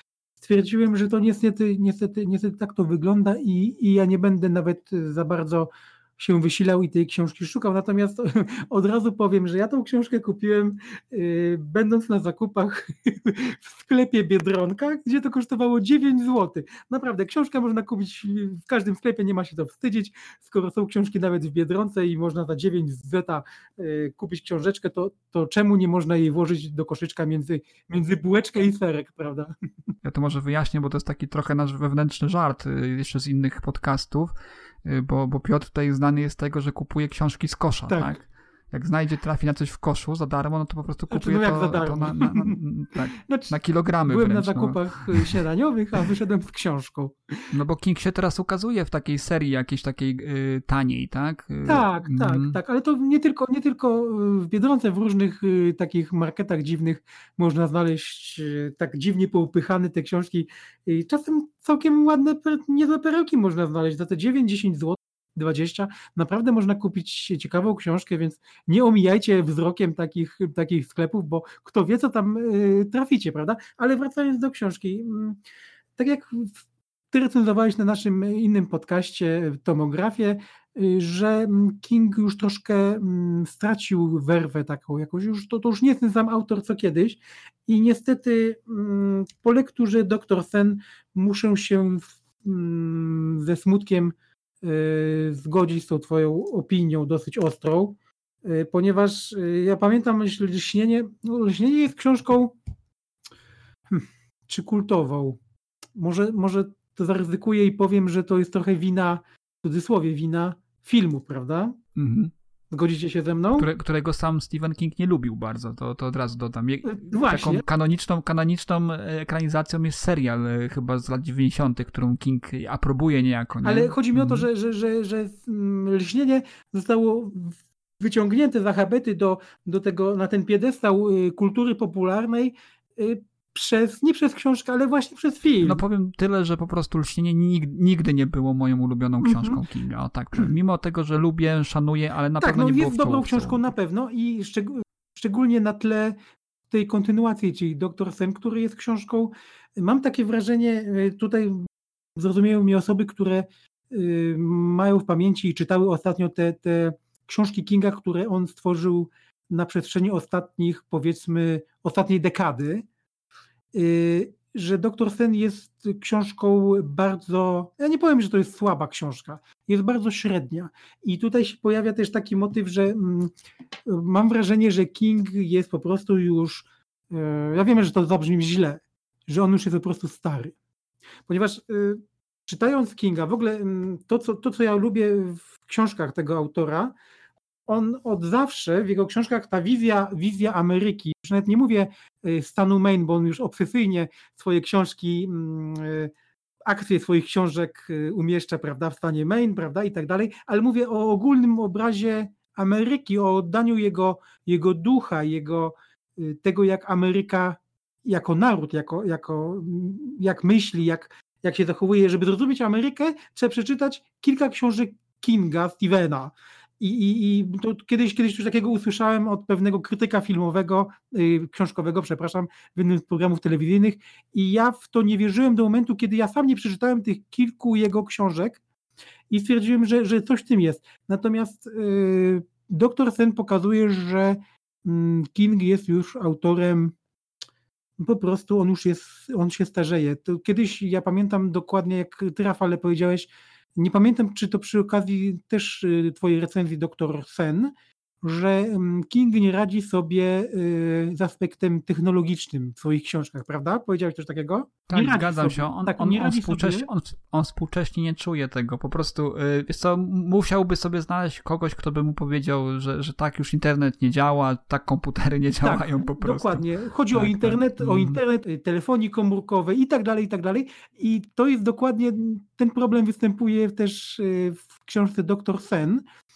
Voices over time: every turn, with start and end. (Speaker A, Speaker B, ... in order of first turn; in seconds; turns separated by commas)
Speaker A: 0.4-29.5, Speaker B: 30.0-34.3, Speaker B: 34.8-45.4, Speaker A: 37.9-38.2, Speaker A: 41.1-42.6, Speaker A: 43.2-47.1, Speaker B: 47.5-52.6, Speaker A: 51.6-75.4, Speaker A: 76.0-102.5, Speaker A: 103.9-105.4, Speaker A: 106.0-111.8, Speaker B: 112.0-112.3, Speaker A: 112.7-113.7, Speaker B: 113.5-124.5, Speaker A: 116.8-117.6, Speaker A: 123.6-135.8, Speaker B: 135.6-143.6, Speaker A: 139.2-139.6, Speaker A: 142.4-146.2, Speaker A: 146.7-162.8, Speaker A: 163.7-173.3, Speaker A: 173.9-180.5, Speaker A: 181.3-186.9, Speaker A: 187.7-196.1, Speaker A: 196.7-228.6, Speaker A: 229.3-236.9, Speaker A: 238.0-247.7, Speaker A: 248.2-256.9, Speaker B: 254.9-268.2, Speaker A: 265.6-276.0